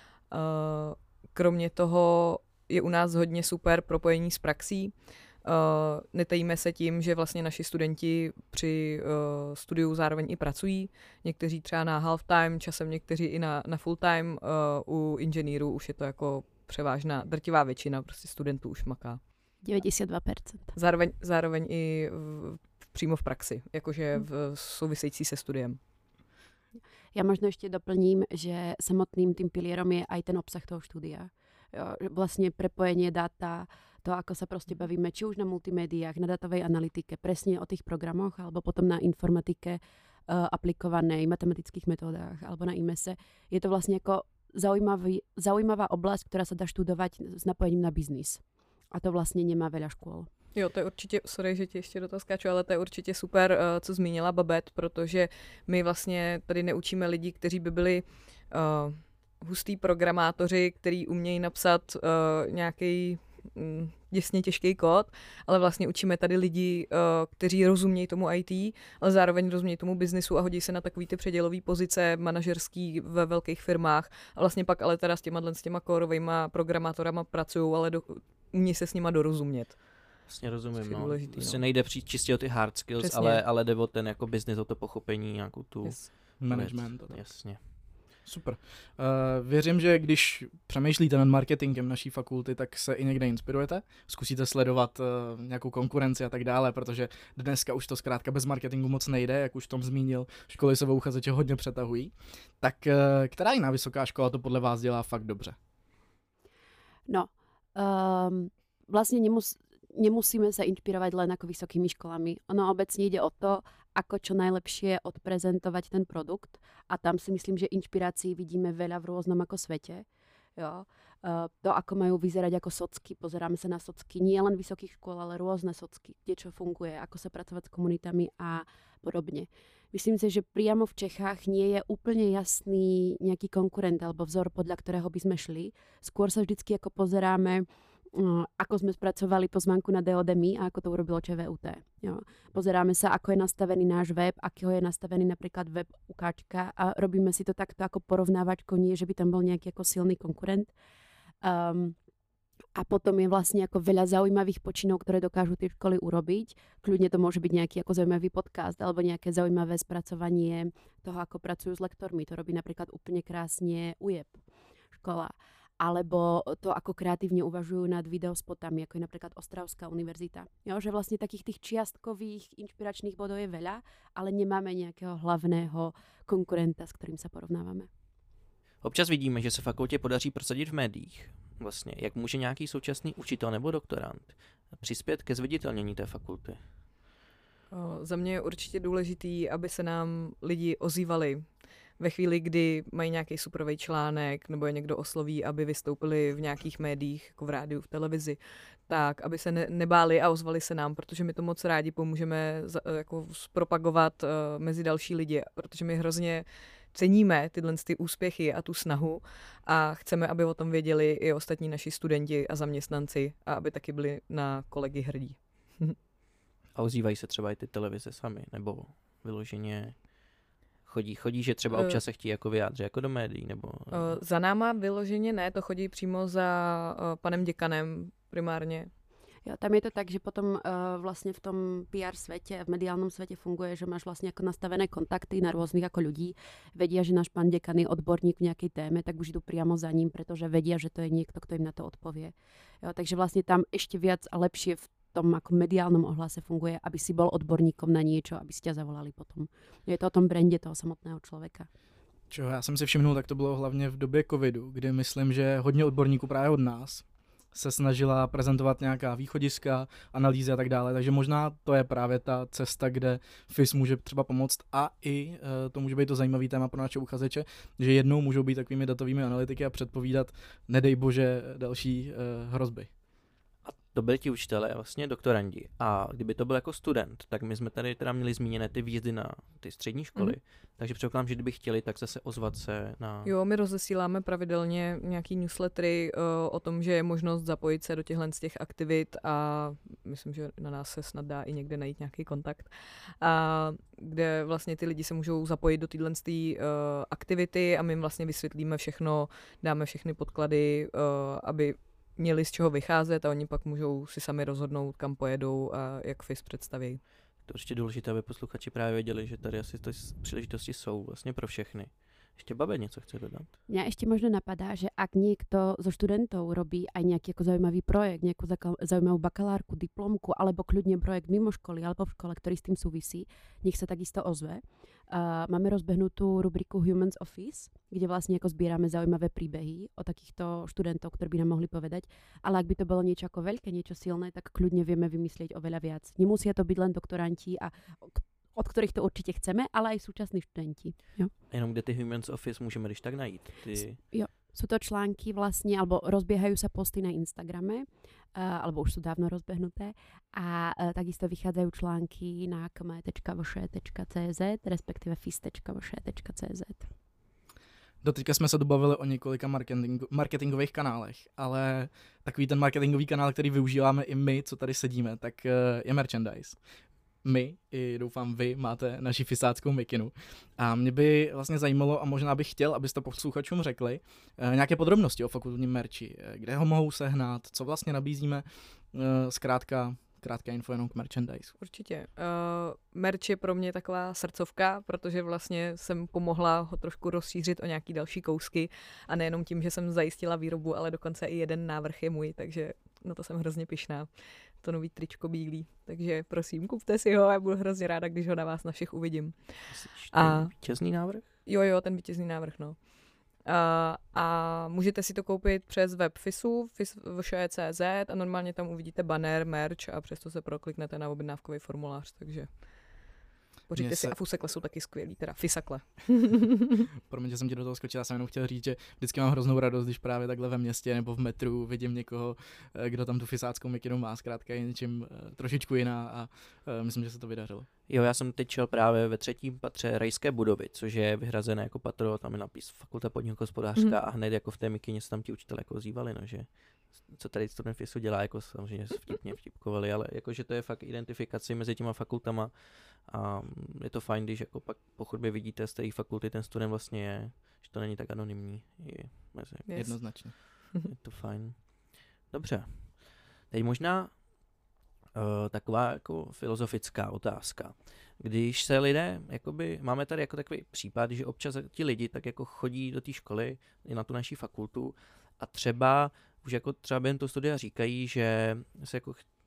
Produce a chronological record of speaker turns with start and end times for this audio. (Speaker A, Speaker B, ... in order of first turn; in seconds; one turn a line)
Speaker A: 0.3-19.2
Speaker B: 19.6-20.7
Speaker A: 20.7-25.8
Speaker B: 27.1-50.3
Speaker A: 50.5-80.0
Speaker C: 80.3-87.6
Speaker A: 80.8-81.6
Speaker A: 83.0-83.4
Speaker D: 86.4-87.3
Speaker D: 88.2-105.6
Speaker B: 107.1-150.7
Speaker B: 151.4-152.0
Speaker B: 152.8-164.4
Speaker B: 165.0-177.9
Speaker C: 178.8-186.6
Speaker A: 187.7-216.0
Speaker C: 216.8-220.1
Speaker C: 220.8-224.2
Speaker A: 221.7-222.0
Speaker A: 223.9-228.9
Speaker B: 229.4-251.7
Speaker D: 252.3-272.9
Speaker C: 273.6-283.3
Speaker A: 283.2-307.0
Speaker C: 307.4-313.5
Speaker B: 313.7-341.3
Speaker C: 341.5-344.0
Speaker B: 344.0-356.9
Speaker D: 358.0-366.6
Speaker D: 367.2-381.5
Speaker A: 381.6-400.5
Speaker C: 399.7-401.3
Speaker A: 401.4-413.1
Speaker A: 413.7-416.7
Speaker D: 413.8-414.1
Speaker D: 417.1-427.7
Speaker C: 427.9-449.7
Speaker A: 449.7-450.8
Speaker D: 449.8-450.4
Speaker C: 450.8-454.3
Speaker C: 455.1-469.3